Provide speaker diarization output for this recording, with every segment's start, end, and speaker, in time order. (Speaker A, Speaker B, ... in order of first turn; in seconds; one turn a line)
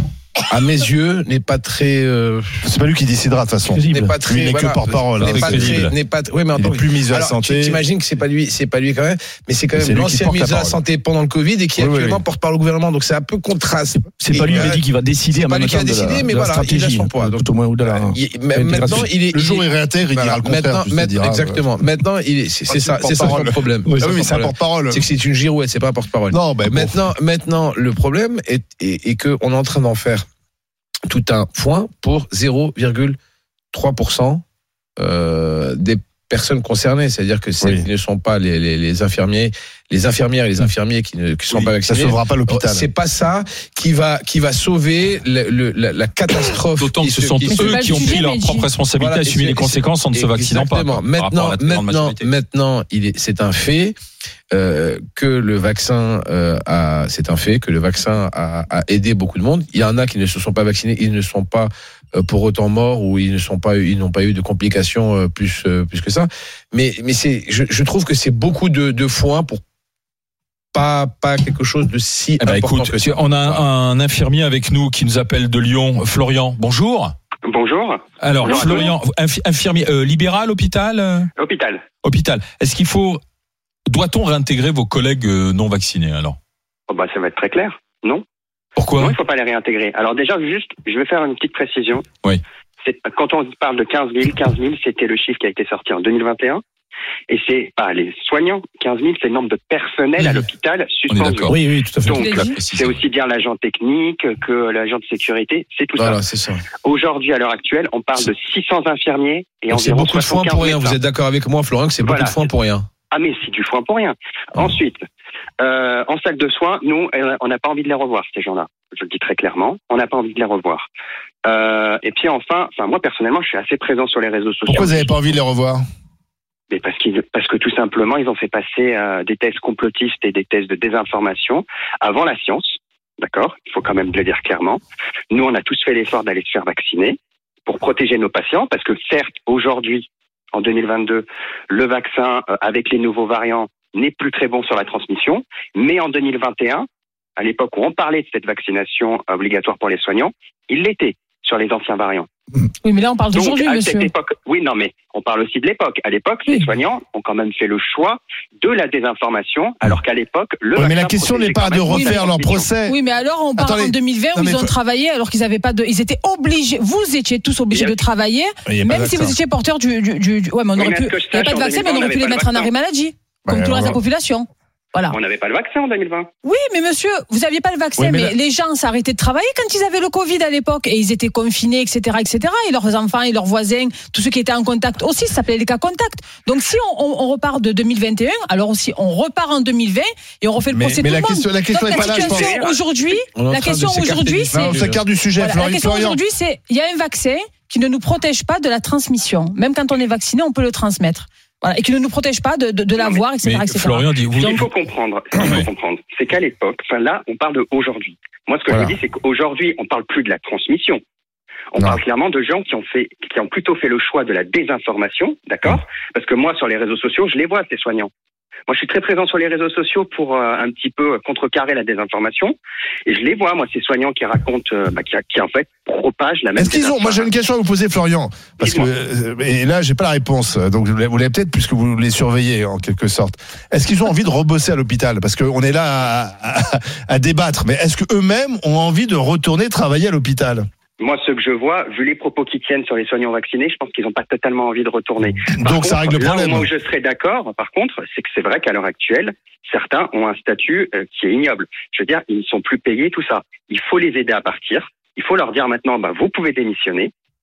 Speaker A: 0.5-2.6
Speaker B: 2.6-5.9
Speaker C: 3.7-4.2
Speaker A: 3.9-30.2
Speaker D: 5.3-5.9
Speaker B: 6.6-7.8
Speaker B: 9.7-10.8
Speaker B: 11.8-12.2
Speaker C: 14.1-19.1
Speaker B: 19.1-21.7
Speaker B: 22.7-25.1
Speaker C: 23.9-24.1
Speaker B: 26.3-27.1
Speaker A: 31.1-33.2
Speaker A: 33.7-34.4
Speaker A: 35.0-48.2
Speaker B: 37.6-37.9
Speaker B: 41.5-42.9
Speaker D: 46.8-52.3
Speaker E: 47.5-48.7
Speaker A: 48.9-54.0
Speaker A: 54.5-69.6
Speaker A: 70.7-73.7
Speaker D: 72.4-77.1
Speaker F: 77.5-78.9
Speaker D: 78.2-81.3
Speaker F: 81.4-81.8
Speaker D: 82.0-83.2
Speaker D: 83.9-86.4
Speaker F: 86.9-88.2
Speaker D: 88.8-89.2
Speaker F: 89.0-92.0
Speaker F: 92.8-96.6
Speaker F: 97.3-101.5
Speaker D: 100.2-100.5
Speaker D: 101.1-101.6
Speaker C: 101.5-102.5
Speaker F: 102.1-111.0
Speaker E: 102.1-102.6
Speaker D: 102.4-103.0
Speaker A: 106.0-106.7
Speaker A: 109.7-112.9
Speaker F: 112.0-112.5
Speaker F: 113.1-115.0
Speaker F: 115.6-120.9
Speaker F: 121.4-125.3
Speaker B: 124.7-125.8
Speaker F: 126.7-146.9
Speaker F: 147.4-152.3
Speaker E: 152.8-154.1
Speaker F: 153.3-162.7
Speaker B: 160.8-163.0
Speaker E: 161.9-162.2
Speaker E: 162.8-175.2
Speaker B: 163.6-164.7
Speaker F: 167.7-168.0
Speaker B: 168.7-169.4
Speaker F: 170.8-172.7
Speaker B: 173.4-174.0
Speaker F: 175.1-176.3
Speaker E: 176.4-194.8
Speaker B: 178.0-178.3
Speaker B: 190.7-192.5
Speaker F: 191.9-193.1
Speaker A: 193.3-195.0
Speaker B: 194.5-196.2
Speaker E: 195.4-204.1
Speaker F: 203.0-203.2
Speaker D: 203.4-204.7
Speaker F: 204.3-211.0
Speaker B: 208.7-208.9
Speaker F: 211.7-218.1
Speaker F: 218.7-227.3
Speaker B: 226.6-240.6
Speaker F: 228.6-228.9
Speaker F: 241.0-257.1
Speaker B: 245.5-246.7